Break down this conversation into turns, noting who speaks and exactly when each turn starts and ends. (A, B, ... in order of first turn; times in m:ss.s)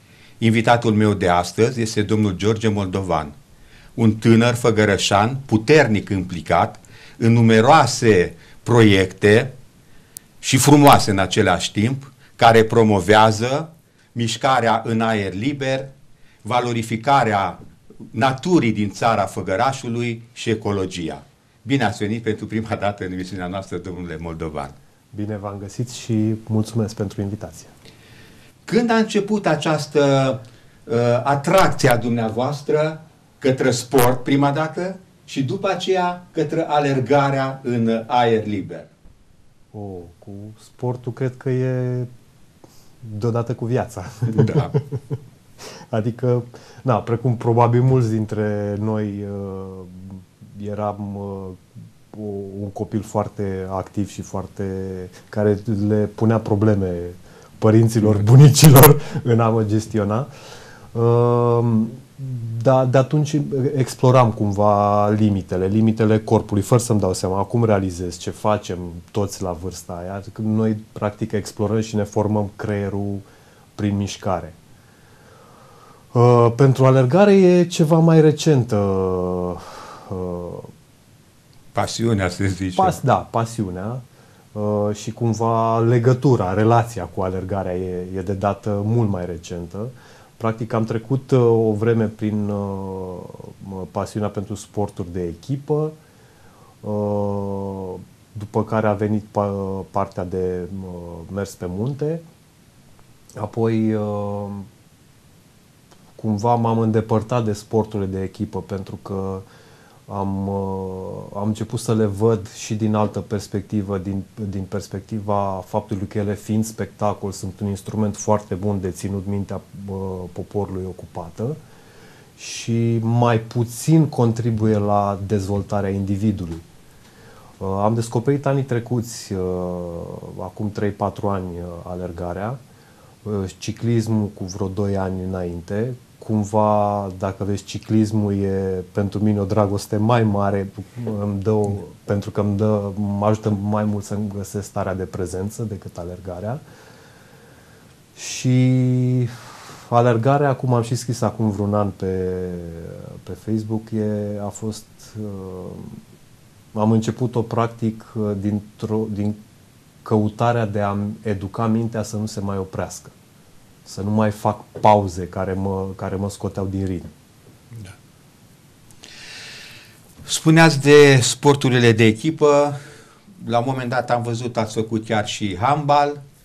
0:00.4-0:03.3 A
0:04.0-0:09.5 A
0:10.4-0:15.9 A
0:16.4-0:17.6 A
0:18.1-0:24.7 A
0:25.1-0:27.7 B
0:28.6-0:38.9 A
0:39.7-0:42.1 B
0:43.0-0:45.2 B
0:44.3-0:44.8 A
0:45.9-0:51.6 B
0:52.1-1:00.3 B
1:00.9-1:13.2 B
1:13.8-1:14.5 B
1:16.1-1:20.7 B
1:21.7-1:23.0 A
1:22.7-1:24.0 B
1:24.5-1:35.9 B
1:36.8-1:42.2 B
1:43.4-1:44.7 B
1:46.2-1:49.4 B
1:50.1-2:01.6 B
2:02.4-2:06.6 B
2:07.6-2:12.6 B
2:13.2-2:26.6 B
2:28.2-2:29.4 B
2:29.9-2:36.0 B
2:36.7-2:39.4 B
2:40.0-2:43.1 B
2:43.8-2:47.1 B
2:50.2-2:52.8 A
2:53.3-2:56.2 A